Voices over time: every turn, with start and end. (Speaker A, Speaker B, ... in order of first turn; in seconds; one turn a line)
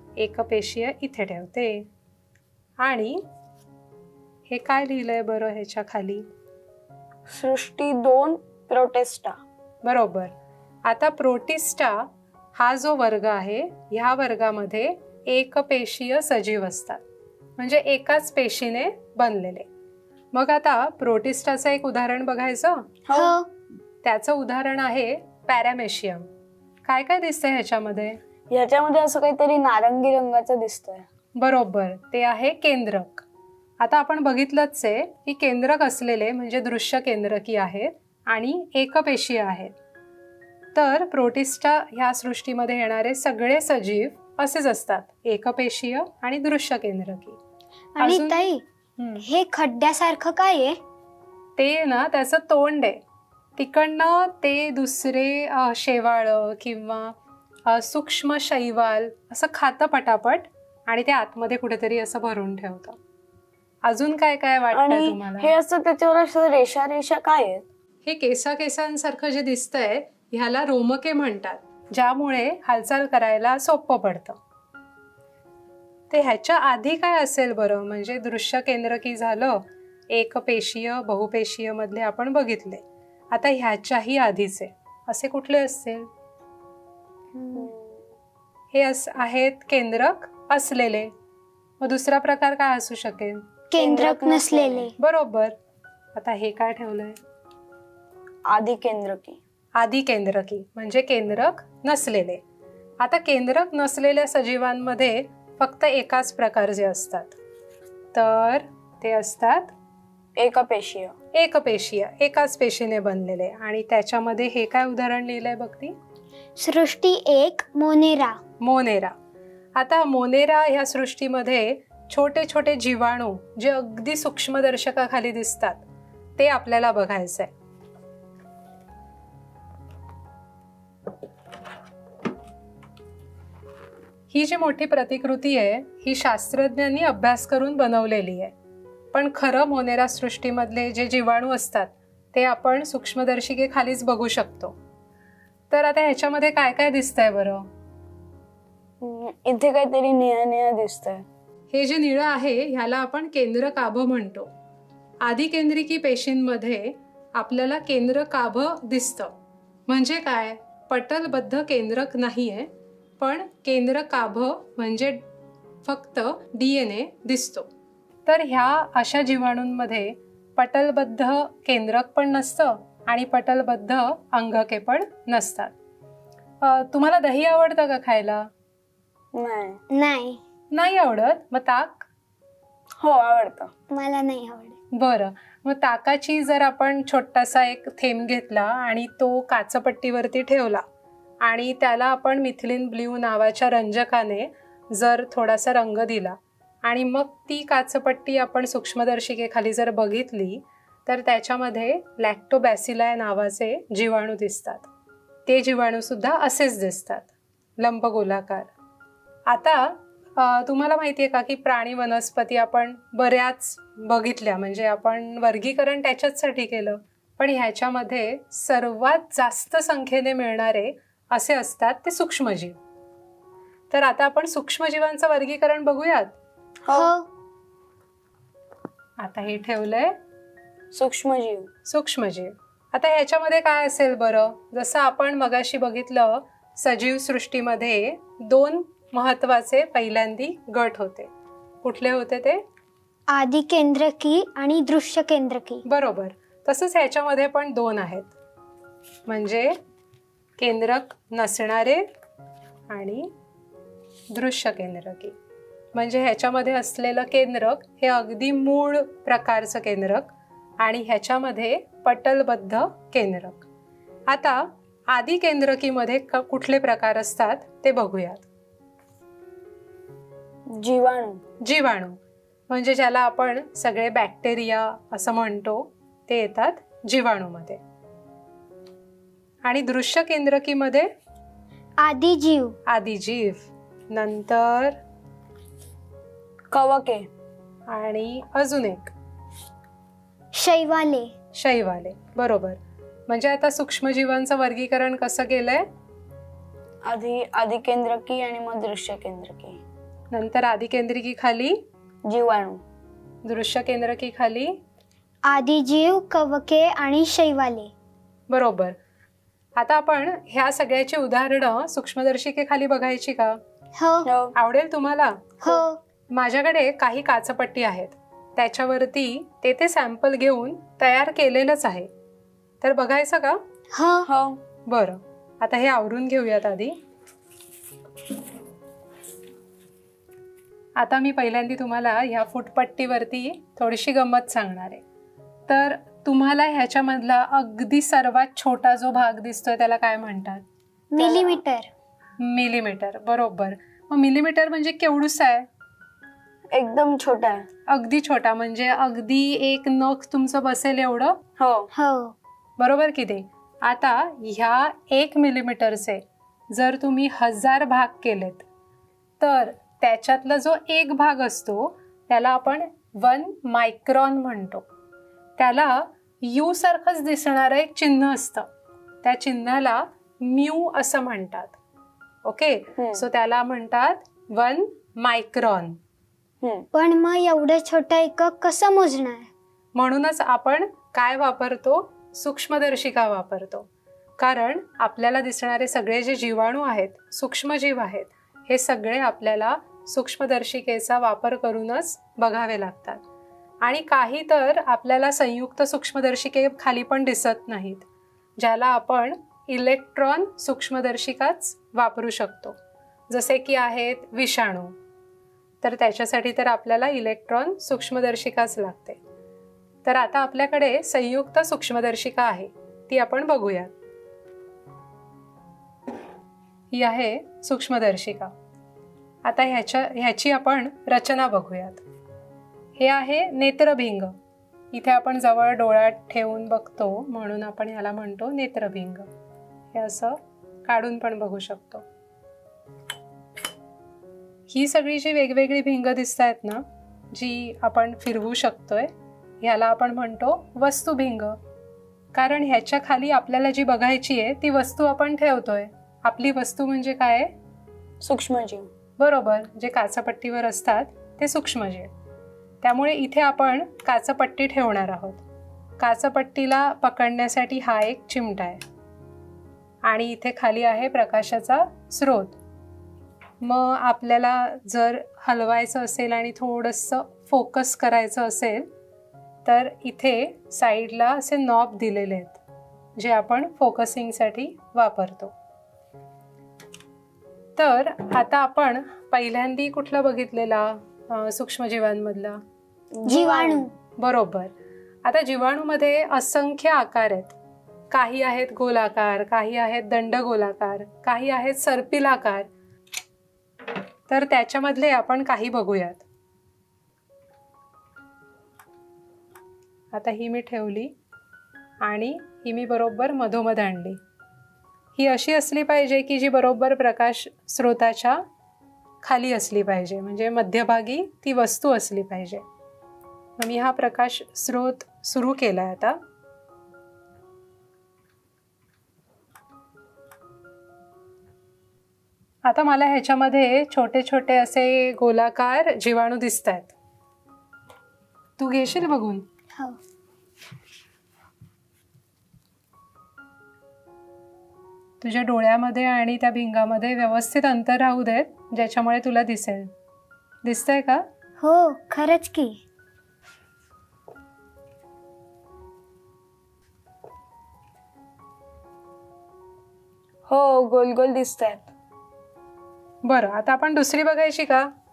Speaker A: 0.2-1.9
Speaker A: 2.8-3.2
Speaker A: 4.5-6.3
Speaker B: 7.3-9.4
Speaker A: 9.8-10.3
Speaker A: 10.8-17.0
Speaker A: 17.6-19.7
Speaker A: 20.3-22.9
Speaker B: 23.1-23.3
Speaker C: 23.1-23.5
Speaker A: 24.0-26.3
Speaker A: 26.9-28.2
Speaker B: 28.5-31.1
Speaker A: 31.4-33.2
Speaker A: 33.8-39.7
Speaker A: 40.7-47.4
Speaker C: 48.0-48.6
Speaker A: 48.0-48.4
Speaker A: 49.0-49.2
Speaker C: 49.2-50.8
Speaker A: 51.6-53.0
Speaker A: 53.6-57.1
Speaker A: 57.7-63.0
Speaker A: 63.9-65.5
Speaker B: 64.7-67.7
Speaker A: 68.0-74.4
Speaker A: 76.1-86.1
Speaker C: 87.3-87.7
Speaker B: 87.5-88.0
Speaker A: 88.7-91.1
Speaker A: 91.8-93.5
Speaker C: 93.7-94.9
Speaker B: 93.8-94.9
Speaker A: 95.0-95.5
Speaker A: 96.1-97.2
Speaker B: 98.5-99.4
Speaker A: 99.8-102.4
Speaker A: 103.0-107.4
Speaker A: 108.1-109.7
Speaker B: 110.4-111.1
Speaker A: 111.3-116.0
Speaker C: 116.6-118.4
Speaker A: 118.6-119.1
Speaker A: 119.8-125.8
Speaker A: 126.4-127.5
Speaker A: 134.3-138.5
Speaker A: 139.1-144.8
Speaker A: 145.7-147.7
Speaker B: 149.0-151.2
Speaker A: 151.7-154.5
Speaker A: 155.2-159.3
Speaker A: 159.9-165.2
Speaker A: 165.8-167.7
Speaker A: 168.2-175.7
Speaker A: 176.6-178.5
Speaker B: 179.3-179.8
Speaker C: 179.9-180.4
Speaker A: 180.7-182.1
Speaker B: 183.0-183.7
Speaker C: 183.9-184.8
Speaker A: 184.9-190.8
Speaker A: 191.4-204.9
Speaker A: 205.5-208.7
Speaker A: 209.5-222.8
Speaker A: 223.9-226.4
Speaker B: 226.9-227.1
Speaker C: 226.9-227.3
Speaker A: 229.2-230.2
Speaker B: 230.9-231.7
Speaker A: 231.9-241.3
Speaker A: 241.8-242.6
Speaker C: 243.3-245.8
Speaker A: 245.8-248.3
Speaker A: 249.3-249.8
Speaker A: 250.6-252.1
Speaker A: 252.9-253.3
Speaker A: 254.3-255.3
Speaker A: 255.9-263.6
Speaker A: 264.3-268.4
Speaker B: 270.7-271.4
Speaker A: 271.6-272.2
Speaker A: 272.7-277.8
Speaker A: 279.6-281.1
Speaker C: 282.0-282.8
Speaker A: 282.9-285.0
Speaker B: 286.7-287.3
Speaker A: 287.9-289.1
Speaker C: 290.5-291.3
Speaker A: 291.5-295.9
Speaker B: 297.0-299.8
Speaker A: 300.3-301.8
Speaker B: 302.2-302.8
Speaker A: 303.4-304.8
Speaker C: 305.5-307.9
Speaker A: 308.5-309.0
Speaker A: 309.8-313.6
Speaker C: 314.0-314.3
Speaker B: 314.2-314.5
Speaker A: 314.5-315.6
Speaker C: 315.6-316.0
Speaker A: 316.3-322.1
Speaker A: 322.8-323.6
Speaker C: 323.9-324.3
Speaker B: 324.2-324.6
Speaker A: 324.9-327.0
Speaker A: 331.0-335.0
Speaker A: 335.7-340.6
Speaker C: 341.1-341.9
Speaker B: 341.2-341.6
Speaker A: 342.4-345.7
Speaker B: 346.7-347.6
Speaker A: 347.9-351.4
Speaker B: 351.6-351.9
Speaker C: 351.9-352.4
Speaker A: 352.8-358.6
Speaker A: 359.4-364.9
Speaker A: 365.6-368.7
Speaker A: 369.2-371.8
Speaker A: 372.4-376.0
Speaker B: 373.0-373.2
Speaker C: 376.9-379.5
Speaker A: 379.9-383.9
Speaker A: 384.4-393.2
Speaker A: 393.8-398.0
Speaker A: 398.6-402.8
Speaker A: 403.3-405.0
Speaker A: 405.8-409.2
Speaker A: 410.0-413.9
Speaker A: 416.9-418.5
Speaker A: 419.4-422.0
Speaker A: 423.0-424.3
Speaker A: 424.9-429.3
Speaker A: 429.9-432.1
Speaker A: 434.7-441.6
Speaker A: 442.3-447.5
Speaker B: 448.2-448.9
Speaker A: 449.2-452.1
Speaker A: 452.8-455.4
Speaker A: 456.0-458.8
Speaker A: 460.0-462.6
Speaker A: 463.6-468.9
Speaker A: 469.6-472.6
Speaker A: 473.2-475.5
Speaker A: 477.8-482.6
Speaker B: 483.2-483.9
Speaker C: 483.2-483.9
Speaker A: 484.2-484.7
Speaker A: 485.2-487.5
Speaker A: 488.1-492.7
Speaker A: 494.3-496.2
Speaker A: 500.1-501.1
Speaker A: 502.0-504.2
Speaker A: 505.1-508.4
Speaker A: 509.2-512.6
Speaker A: 513.6-516.2
Speaker A: 522.6-526.9
Speaker A: 528.6-529.5
Speaker A: 535.2-539.9
Speaker A: 540.6-541.2
Speaker C: 541.6-542.8
Speaker B: 550.5-551.9
Speaker A: 553.2-554.9